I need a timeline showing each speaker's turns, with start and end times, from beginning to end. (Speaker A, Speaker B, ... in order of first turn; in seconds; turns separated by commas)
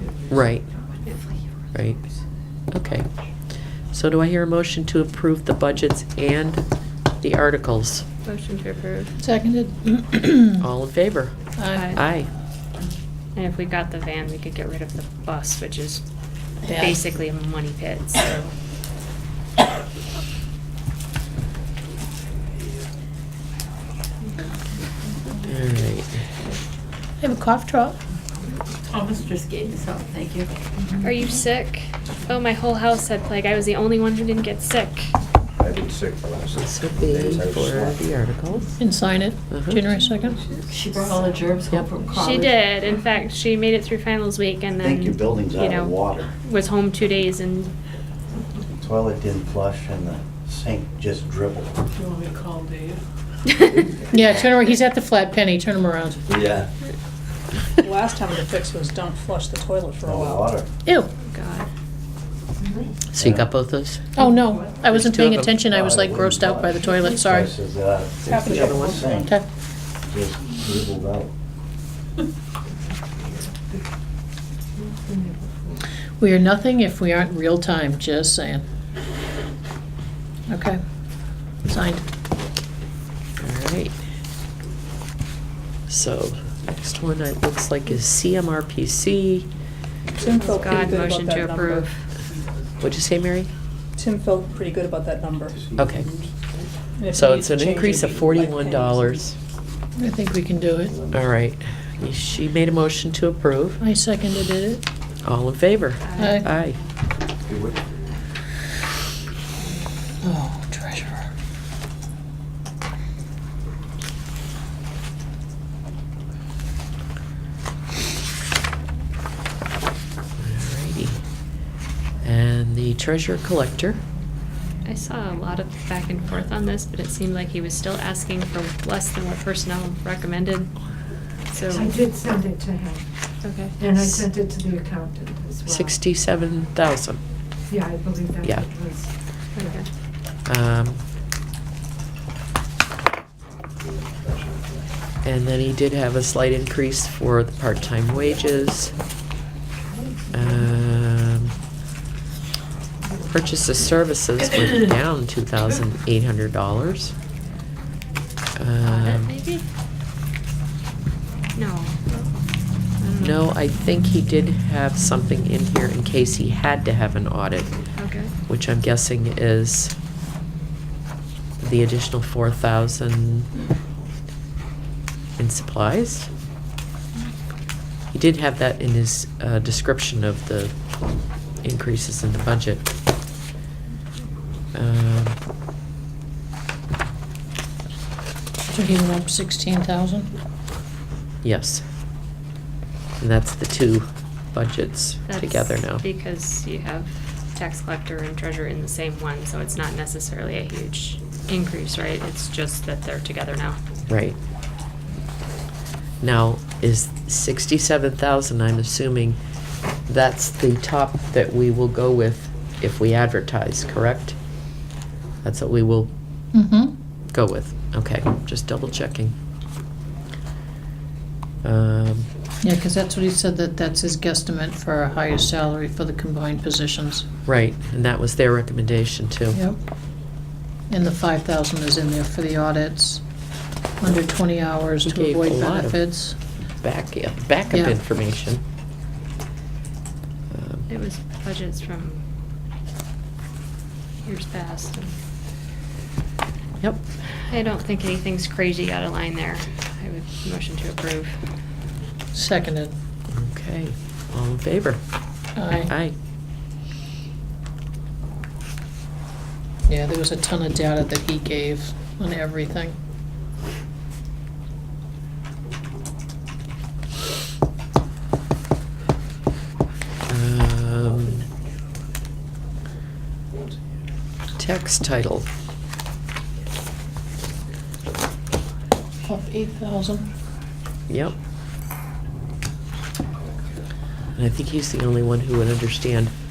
Speaker A: 0.3-0.7, Speaker A: 1.7-2.0, Speaker A: 2.7-3.1, Speaker A: 3.9-6.6, Speaker A: 7.2-8.0, Speaker B: 8.2-9.2, Speaker C: 9.2-10.6, Speaker A: 10.6-11.3, Speaker C: 11.6-12.0, Speaker B: 11.7-12.0, Speaker A: 11.9-12.3, Speaker B: 13.3-16.0, Speaker B: 16.6-18.5, Speaker D: 16.7-17.1, Speaker A: 25.4-26.2, Speaker C: 27.2-28.0, Speaker E: 29.0-30.4, Speaker B: 31.0-35.1, Speaker F: 35.6-38.0, Speaker A: 36.5-38.8, Speaker C: 38.8-40.5, Speaker A: 39.5-39.8, Speaker G: 40.9-41.2, Speaker E: 41.4-42.1, Speaker B: 42.0-47.7, Speaker F: 44.8-46.3, Speaker F: 48.8-51.9, Speaker C: 54.1-56.2, Speaker F: 56.3-56.6, Speaker D: 57.8-60.5, Speaker F: 60.0-60.7, Speaker B: 61.2-61.7, Speaker A: 63.1-64.2, Speaker F: 63.2-63.4, Speaker C: 64.1-67.5, Speaker A: 64.9-65.6, Speaker F: 65.7-69.3, Speaker D: 68.2-69.2, Speaker A: 68.2-69.1, Speaker F: 70.1-71.3, Speaker C: 76.2-78.6, Speaker C: 80.5-80.8, Speaker C: 81.7-82.0, Speaker A: 83.4-84.0, Speaker A: 85.9-89.5, Speaker D: 90.2-91.9, Speaker B: 90.3-92.0, Speaker A: 92.8-93.5, Speaker D: 94.0-95.7, Speaker F: 95.7-96.5, Speaker A: 95.8-96.1, Speaker D: 97.0-99.2, Speaker A: 97.1-99.3, Speaker C: 100.0-100.9, Speaker F: 100.9-101.2, Speaker A: 101.1-103.8, Speaker C: 103.8-104.8, Speaker A: 105.2-106.8, Speaker B: 106.0-106.8, Speaker C: 106.2-106.4, Speaker F: 107.5-107.9, Speaker B: 109.6-109.9, Speaker C: 110.2-111.3, Speaker A: 120.4-121.2, Speaker A: 122.2-124.0, Speaker B: 124.8-130.8, Speaker B: 131.5-132.0, Speaker G: 132.2-133.0, Speaker B: 133.4-134.1, Speaker G: 134.3-135.6, Speaker A: 135.6-137.2, Speaker G: 138.1-138.4, Speaker A: 138.4-138.7, Speaker B: 139.5-139.9, Speaker A: 140.4-141.0, Speaker A: 145.2-148.9, Speaker A: 150.3-151.5, Speaker A: 153.3-157.1, Speaker A: 158.6-159.3, Speaker B: 158.8-159.6, Speaker B: 161.5-162.3, Speaker B: 163.0-163.4, Speaker A: 163.2-167.7, Speaker B: 167.9-168.3, Speaker A: 168.5-169.9, Speaker A: 171.6-173.5, Speaker A: 175.4-176.3, Speaker A: 178.1-180.7, Speaker A: 181.6-182.9, Speaker A: 184.7-185.4, Speaker C: 188.7-190.3, Speaker A: 191.4-191.8, Speaker A: 193.2-196.0, Speaker B: 195.3-203.8, Speaker A: 204.1-204.4, Speaker A: 206.2-209.4, Speaker A: 210.1-214.3, Speaker A: 215.4-216.1, Speaker C: 216.5-216.9, Speaker A: 217.3-219.3, Speaker A: 221.6-222.3, Speaker C: 222.6-227.3, Speaker A: 227.4-229.6, Speaker C: 230.9-233.2, Speaker C: 234.0-236.3, Speaker A: 235.0-236.0, Speaker A: 236.8-238.6, Speaker C: 237.7-237.9, Speaker A: 240.5-240.9, Speaker B: 240.9-242.2, Speaker B: 244.2-245.1, Speaker B: 247.5-251.4, Speaker C: 252.3-252.9, Speaker A: 253.3-255.0, Speaker C: 255.6-255.9, Speaker A: 255.8-256.1, Speaker C: 259.9-262.9, Speaker A: 270.3-271.4, Speaker A: 274.6-275.5, Speaker C: 279.3-280.3, Speaker A: 281.1-281.3, Speaker A: 284.4-286.3